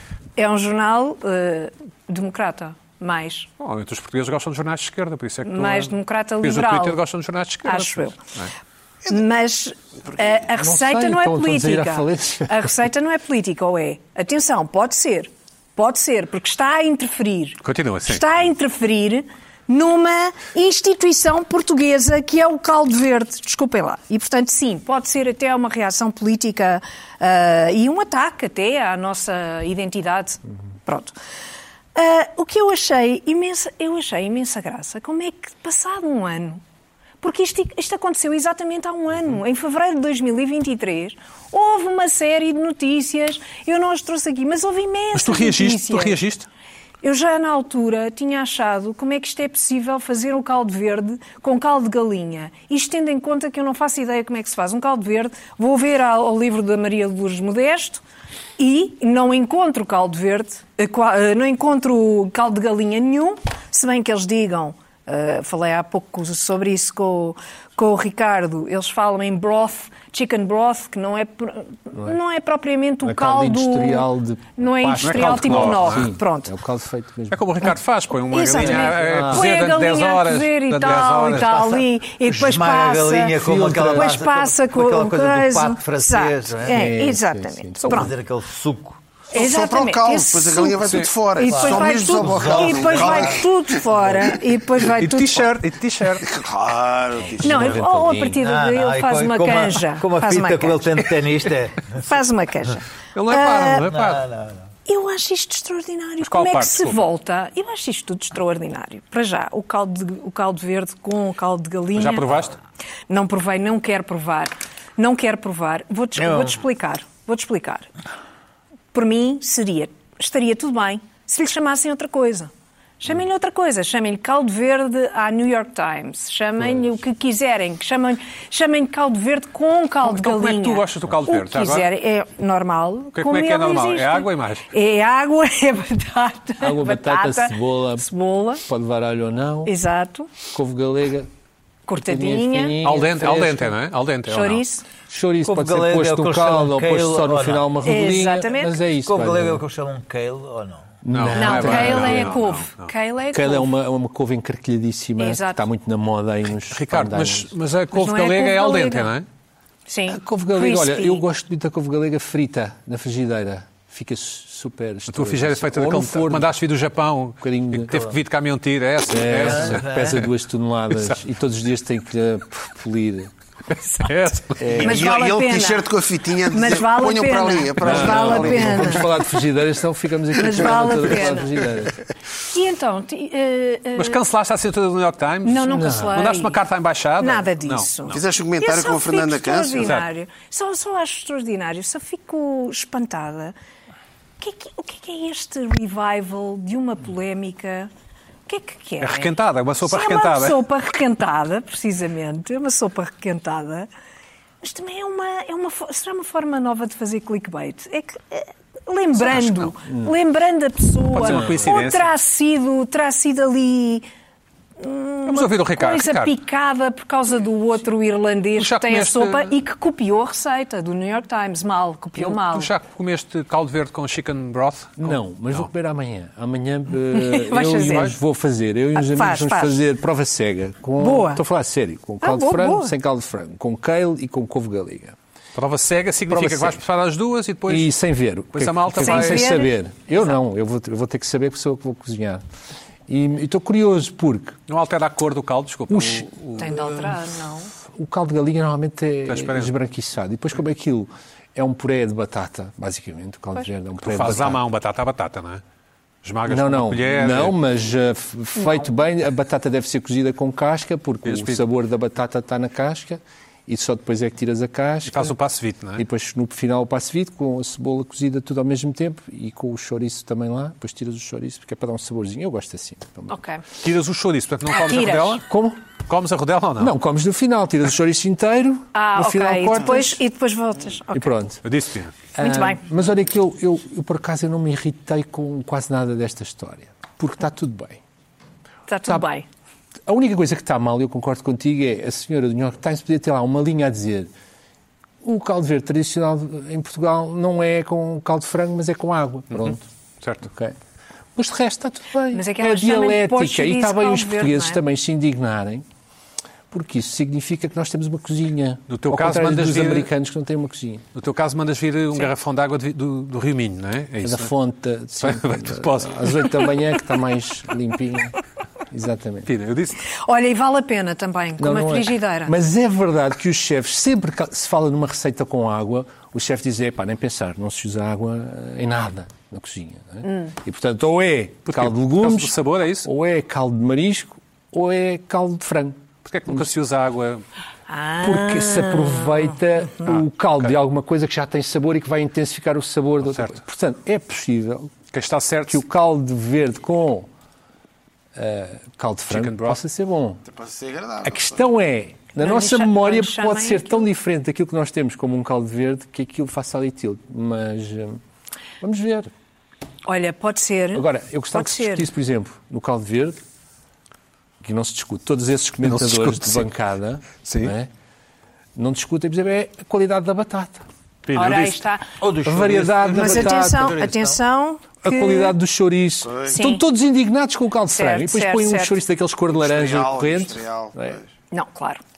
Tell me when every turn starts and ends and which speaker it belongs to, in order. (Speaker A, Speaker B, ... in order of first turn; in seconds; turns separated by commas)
Speaker A: 0.4-3.5, Speaker B: 3.6-8.5, Speaker A: 5.5-7.0, Speaker A: 7.6-8.2, Speaker A: 9.1-31.1, Speaker C: 10.1-10.4, Speaker D: 10.6-12.7, Speaker B: 17.6-18.2, Speaker A: 31.9-36.6, Speaker A: 37.2-46.2, Speaker B: 45.1-46.5, Speaker A: 47.0-58.0, Speaker A: 58.6-76.5, Speaker D: 73.0-77.7, Speaker B: 75.0-76.1, Speaker B: 77.3-81.8, Speaker A: 78.3-83.4, Speaker E: 78.8-79.4, Speaker E: 82.3-86.8, Speaker D: 83.4-84.1, Speaker A: 83.9-88.1, Speaker D: 86.6-88.1, Speaker E: 87.9-89.0, Speaker C: 89.3-93.5, Speaker A: 89.3-95.5, Speaker B: 90.8-91.1, Speaker E: 91.5-93.4, Speaker B: 95.0-96.3, Speaker C: 96.2-97.8, Speaker D: 97.3-98.4, Speaker A: 97.4-101.0, Speaker E: 98.4-102.1, Speaker A: 102.0-103.9, Speaker B: 103.1-104.3, Speaker E: 103.8-104.7, Speaker A: 104.9-112.3, Speaker B: 106.2-107.0, Speaker B: 112.0-112.6, Speaker A: 113.1-117.9, Speaker E: 116.2-116.6, Speaker A: 118.9-138.6, Speaker B: 130.0-131.9, Speaker B: 133.2-134.7, Speaker D: 136.6-138.1, Speaker D: 138.7-139.7, Speaker A: 139.7-140.3, Speaker D: 140.5-141.3, Speaker A: 141.9-142.8, Speaker D: 142.0-143.8, Speaker B: 142.8-144.7, Speaker A: 144.3-144.8, Speaker D: 145.1-149.7, Speaker E: 145.4-147.7, Speaker A: 147.8-148.8, Speaker E: 149.1-150.9, Speaker D: 151.0-152.4, Speaker B: 151.1-152.9, Speaker A: 151.4-153.7, Speaker D: 153.3-157.5, Speaker A: 155.2-155.6, Speaker B: 156.7-159.2, Speaker A: 157.9-159.1, Speaker A: 159.9-161.2, Speaker D: 160.1-166.5, Speaker B: 165.1-169.9, Speaker D: 167.4-168.1, Speaker D: 169.1-173.3, Speaker E: 169.6-170.2, Speaker B: 174.0-174.6, Speaker D: 174.6-175.1, Speaker C: 174.7-179.1, Speaker A: 174.8-175.9, Speaker A: 176.5-179.1, Speaker D: 177.8-182.0, Speaker A: 180.3-181.5, Speaker A: 182.5-184.2, Speaker B: 184.0-188.2, Speaker A: 185.4-186.6, Speaker D: 185.7-186.2, Speaker A: 187.2-193.6, Speaker C: 188.1-189.9, Speaker B: 189.8-190.1, Speaker A: 194.4-197.9, Speaker A: 198.5-199.3, Speaker B: 199.0-200.6, Speaker A: 199.8-203.9, Speaker A: 204.6-214.1, Speaker B: 209.2-209.7, Speaker B: 211.2-212.1, Speaker D: 211.2-211.7, Speaker A: 214.8-222.7, Speaker B: 215.3-216.3, Speaker B: 218.6-219.6, Speaker B: 222.2-225.7, Speaker D: 225.0-235.2, Speaker A: 227.1-228.2, Speaker A: 229.0-229.8, Speaker A: 231.0-231.4, Speaker A: 232.2-232.9, Speaker B: 235.6-237.9, Speaker D: 236.3-236.8, Speaker D: 237.7-242.4, Speaker B: 238.5-239.6, Speaker A: 239.0-239.7, Speaker D: 243.1-244.6, Speaker B: 244.7-246.9, Speaker D: 245.9-246.3, Speaker A: 246.6-247.7, Speaker D: 247.9-254.6, Speaker B: 249.3-249.7, Speaker B: 254.0-255.6, Speaker B: 256.2-257.6, Speaker D: 256.5-265.4, Speaker B: 261.2-261.6, Speaker B: 265.1-266.0, Speaker D: 266.0-273.4, Speaker A: 273.3-273.6, Speaker B: 273.8-275.5, Speaker A: 274.7-275.4, Speaker D: 275.4-275.8, Speaker B: 276.1-276.9, Speaker D: 276.8-280.2, Speaker A: 278.9-281.4, Speaker D: 281.1-281.6, Speaker B: 281.6-282.1, Speaker D: 282.4-288.0, Speaker A: 282.4-282.8, Speaker A: 288.9-289.5, Speaker D: 290.1-294.3, Speaker D: 295.2-299.9, Speaker B: 299.5-300.5, Speaker D: 300.4-300.8, Speaker D: 301.4-305.9, Speaker A: 302.3-304.8, Speaker D: 306.7-311.0, Speaker B: 308.9-310.1, Speaker B: 311.1-314.5, Speaker D: 314.2-318.4, Speaker B: 315.2-316.6, Speaker D: 318.9-319.5, Speaker B: 319.5-320.0, Speaker A: 320.2-322.6, Speaker D: 321.6-336.7, Speaker A: 330.2-330.5, Speaker B: 331.7-333.1, Speaker B: 336.2-337.4, Speaker A: 337.9-340.1, Speaker D: 338.2-344.9, Speaker B: 343.2-343.6, Speaker B: 345.1-345.8, Speaker D: 345.7-347.3, Speaker D: 348.4-350.4, Speaker B: 349.3-349.8, Speaker C: 350.5-351.6, Speaker D: 351.2-358.2, Speaker A: 352.4-354.1, Speaker D: 358.8-359.3, Speaker A: 360.1-362.1, Speaker D: 360.9-363.4, Speaker D: 364.6-367.9, Speaker B: 365.8-366.7, Speaker B: 367.4-367.7, Speaker D: 368.8-370.9, Speaker B: 371.3-371.8, Speaker A: 371.3-372.1, Speaker E: 372.2-374.4, Speaker D: 372.4-374.0, Speaker A: 373.1-375.6, Speaker D: 375.0-381.2, Speaker C: 376.3-376.5, Speaker A: 376.5-376.8, Speaker A: 377.9-379.0, Speaker C: 379.5-381.2, Speaker A: 381.5-382.0